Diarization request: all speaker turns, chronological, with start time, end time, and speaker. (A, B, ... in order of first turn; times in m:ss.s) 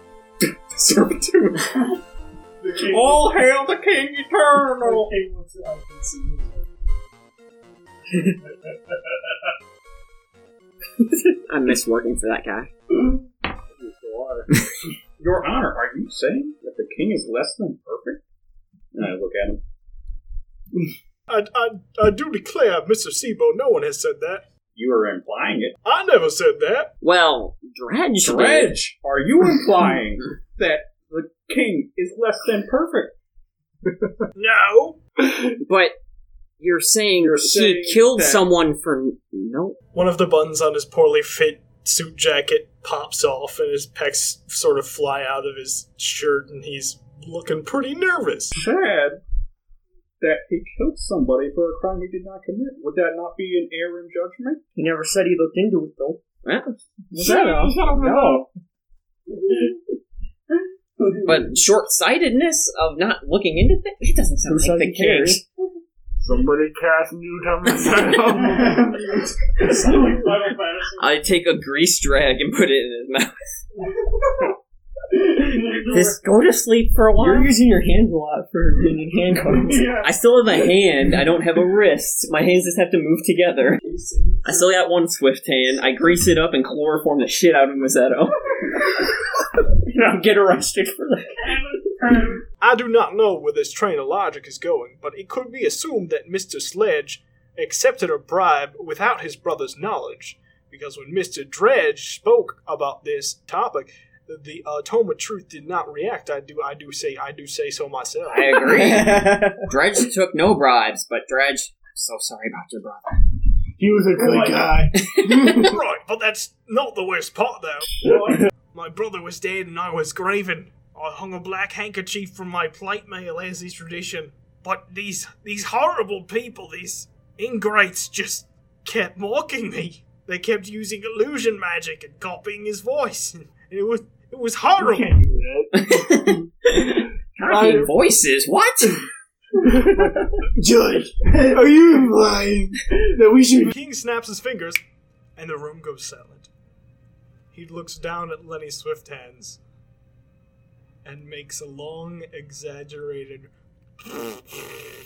0:00.7-0:01.7 A
0:02.6-0:03.3 B
0:02.8-0:05.1 A
0:04.8-0:06.7 B
0:11.5-0:12.7 C
0:13.7-0:14.4 D
0:15.2-0:18.2 A
0:18.9-0:19.6 A
0:21.3-0:24.4 E
0:24.7-0:25.8 A
0:25.8-0:26.9 E
0:27.0-0:28.8 C
0:28.2-0:33.2 A
0:34.4-0:35.0 E
0:35.6-0:36.0 C
0:36.6-0:39.8 C
0:37.2-0:38.4 A
0:39.9-0:48.5 E
0:48.6-0:49.2 A
0:50.2-0:54.6 A
0:54.8-0:56.2 F
0:56.4-0:57.7 C
0:57.2-0:58.5 A
0:57.2-0:58.5 D
0:57.3-0:57.7 F
1:01.2-1:05.4 C
1:04.4-1:05.4 F
1:06.2-1:08.9 D
1:08.3-1:11.0 B
1:11.0-1:13.3 C
1:15.4-1:16.2 B
1:15.8-1:17.6 C
1:17.2-1:20.0 F
1:19.5-1:20.0 B
1:20.0-1:23.8 C
1:23.8-1:24.7 B
1:24.4-1:28.4 C
1:29.8-1:31.6 C
1:32.6-1:48.6 E
1:48.3-1:53.2 C
1:48.9-1:49.2 F
1:53.8-1:55.7 D
1:54.2-1:54.8 B
1:55.1-1:55.5 C
1:55.6-1:57.9 E
1:58.0-1:58.4 B
1:58.7-2:15.2 E
2:14.8-2:16.4 D
2:15.7-2:19.0 C
2:17.5-2:17.9 D
2:19.7-2:23.7 D
2:21.3-2:21.6 B
2:23.6-2:24.8 E
2:25.4-2:26.5 E
2:27.5-2:29.6 E
2:31.0-2:33.5 E
2:34.1-2:34.7 E